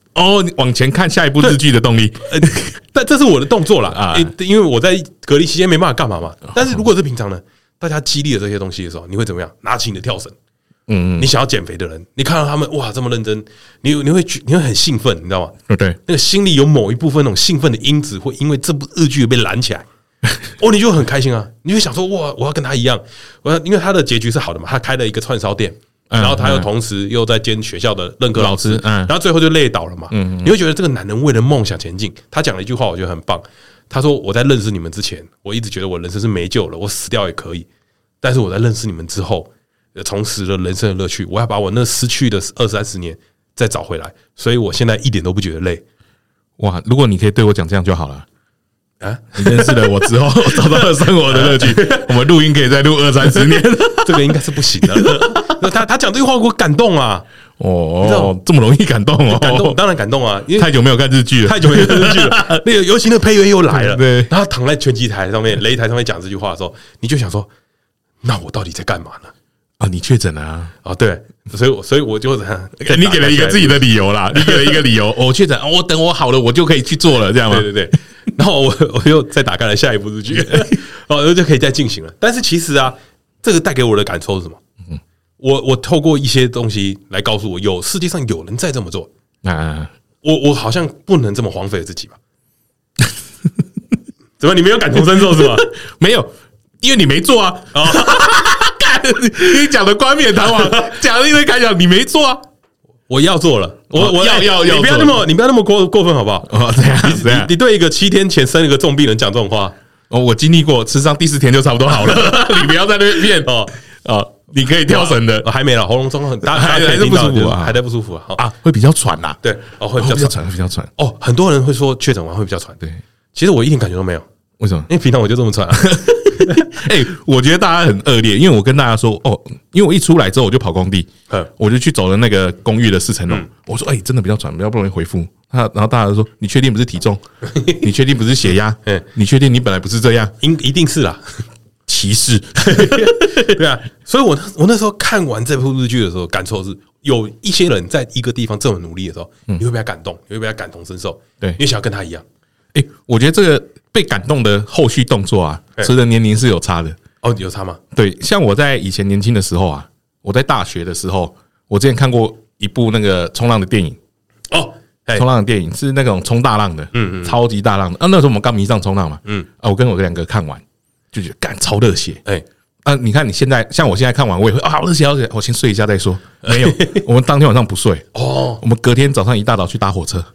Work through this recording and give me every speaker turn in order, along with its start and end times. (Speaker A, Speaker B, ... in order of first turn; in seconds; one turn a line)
Speaker A: 0.1-2.7
Speaker B: 2.2-10.3
Speaker A: 3.9-4.3
Speaker A: 10.9-11.3
Speaker B: 11.2-19.9
Speaker A: 15.7-16.0
Speaker B: 20.6-37.7
Speaker A: 26.1-26.7
Speaker A: 28.4-29.1
Speaker A: 30.1-30.6
Speaker B: 38.2-45.8
Speaker A: 46.6-48.3
Speaker B: 49.0-52.1
Speaker A: 49.4-55.5
Speaker B: 54.0-57.2
Speaker A: 57.6-59.8
Speaker B: 58.0-58.3
Speaker B: 59.3-60.7
Speaker A: 60.5-62.6
Speaker B: 61.4-67.5
Speaker A: 63.7-64.3
Speaker B: 68.2-69.3
Speaker A: 69.8-70.7
Speaker B: 70.8-74.8
Speaker A: 72.8-77.7
Speaker B: 77.5-84.6
Speaker B: 85.4-89.1
Speaker A: 89.4-89.9
Speaker B: 90.2-92.2
Speaker B: 94.4-95.7
Speaker A: 95.2-102.4
Speaker B: 97.7-98.3
Speaker B: 100.5-100.9
Speaker B: 103.1-109.8
Speaker A: 103.9-105.2
Speaker A: 106.5-107.5
Speaker A: 110.1-115.5
Speaker B: 111.9-112.7
Speaker B: 113.4-113.7
Speaker B: 114.9-118.4
Speaker A: 116.4-117.8
Speaker A: 118.4-119.4
Speaker B: 119.4-120.4
Speaker A: 120.0-120.9
Speaker B: 121.0-122.8
Speaker B: 123.3-124.3
Speaker A: 124.6-124.9
Speaker B: 124.9-126.8
Speaker A: 125.7-140.3
Speaker B: 140.4-141.4
Speaker A: 141.9-143.6
Speaker B: 142.6-152.2
Speaker A: 152.7-157.0
Speaker B: 157.2-157.8
Speaker A: 157.9-164.0
Speaker B: 164.5-165.3
Speaker A: 165.2-172.2
Speaker B: 166.9-167.4
Speaker A: 172.8-178.1
Speaker B: 176.4-177.0
Speaker B: 178.1-178.6
Speaker A: 178.6-180.3